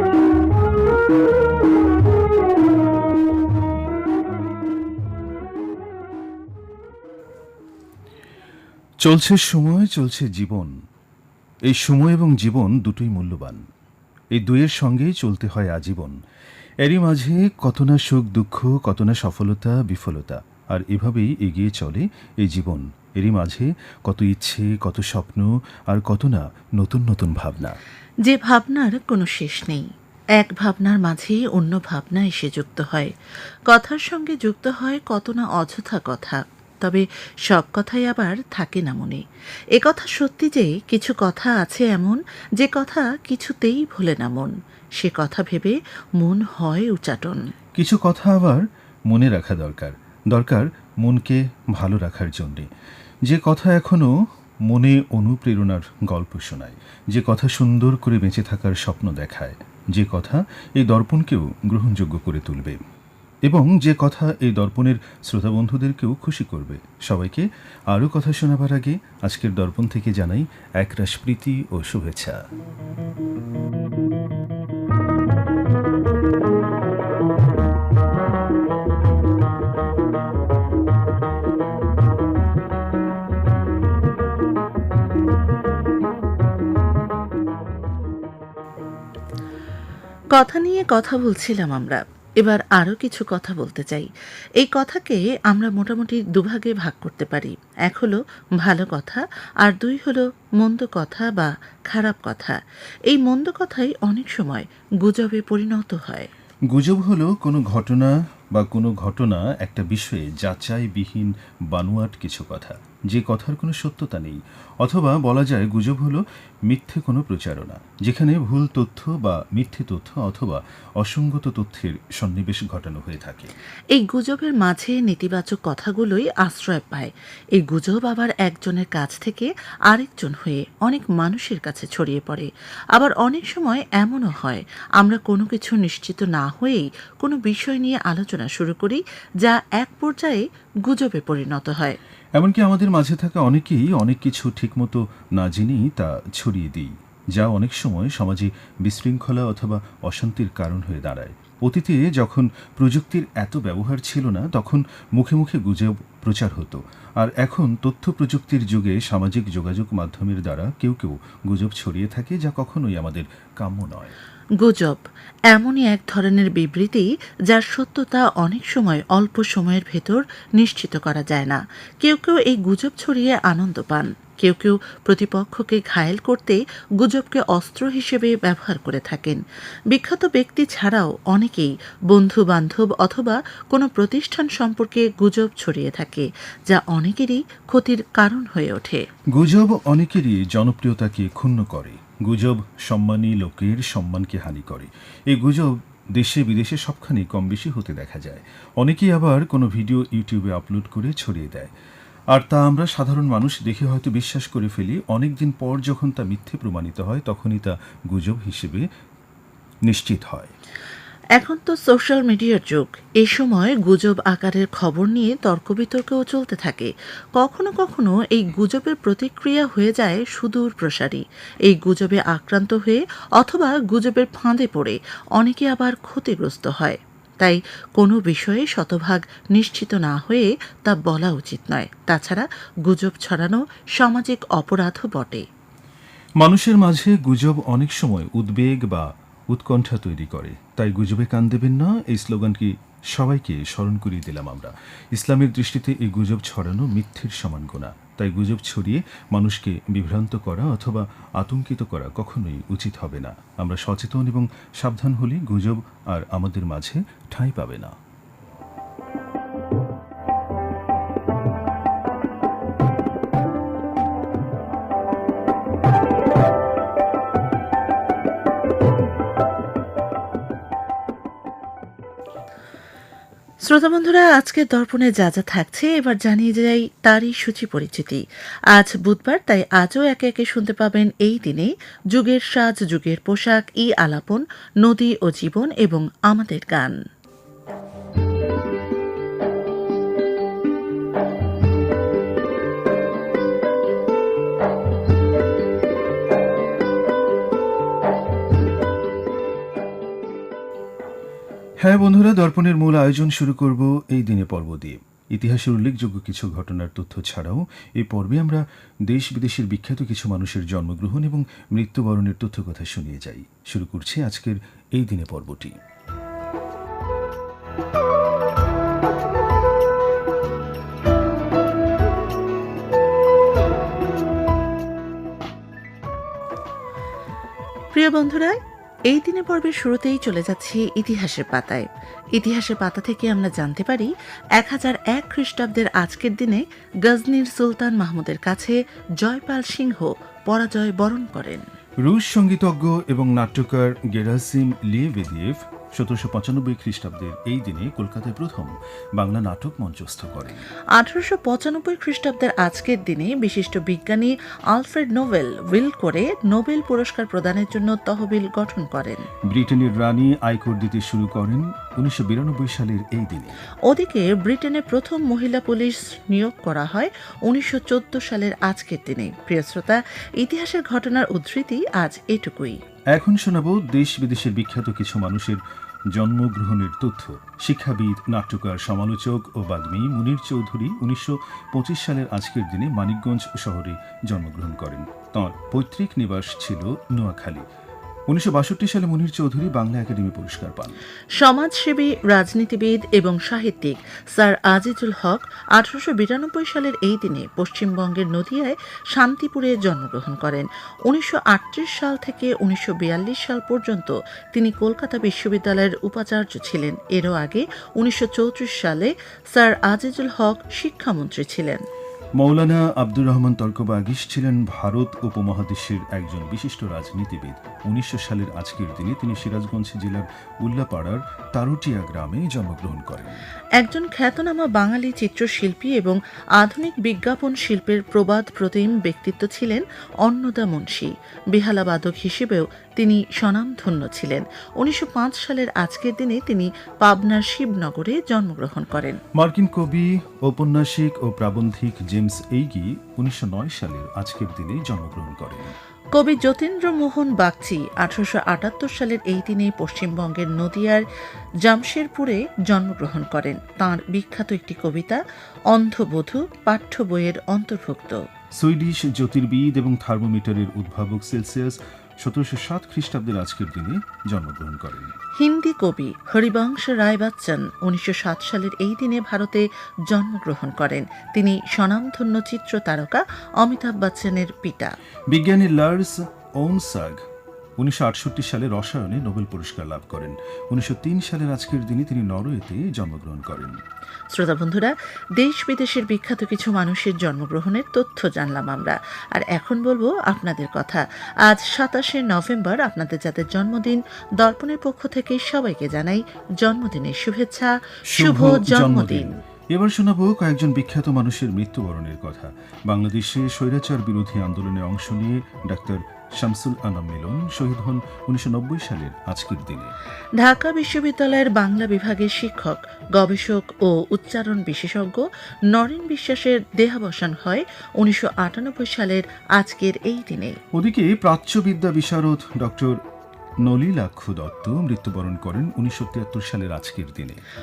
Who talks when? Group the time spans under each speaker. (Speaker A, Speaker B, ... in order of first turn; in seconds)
Speaker A: 9.0-10.7, 11.7-13.6, 14.3-16.2, 16.8-27.8, 47.8-52.7, 53.3-54.1, 54.6-62.8, 63.5-72.4, 106.7-123.5, 142.4-164.2, 189.3-201.7, 202.3-208.9, 209.9-210.5, 236.4-257.9, 301.8-315.8, 342.1-350.7, 359.5-363.6, 373.1-375.6, 376.1-387.7, 388.3-391.0, 412.4-423.4, 439.4-445.8, 458.6-465.2, 475.3-477.2, 477.8-483.8, 498.1-509.9, 520.8-523.0, 523.6-527.4
Speaker B: 28.2-33.1, 33.7-39.2, 39.8-47.5, 90.3-106.3, 123.9-142.0, 164.6-189.1, 211.4-235.5, 273.7-287.0, 327.9-328.6, 329.1-341.7, 351.0-359.3, 363.9-372.8, 391.4-411.8, 423.8-439.2, 446.1-451.0, 451.6-458.2, 465.4-474.9, 484.3-499.4, 510.4-520.6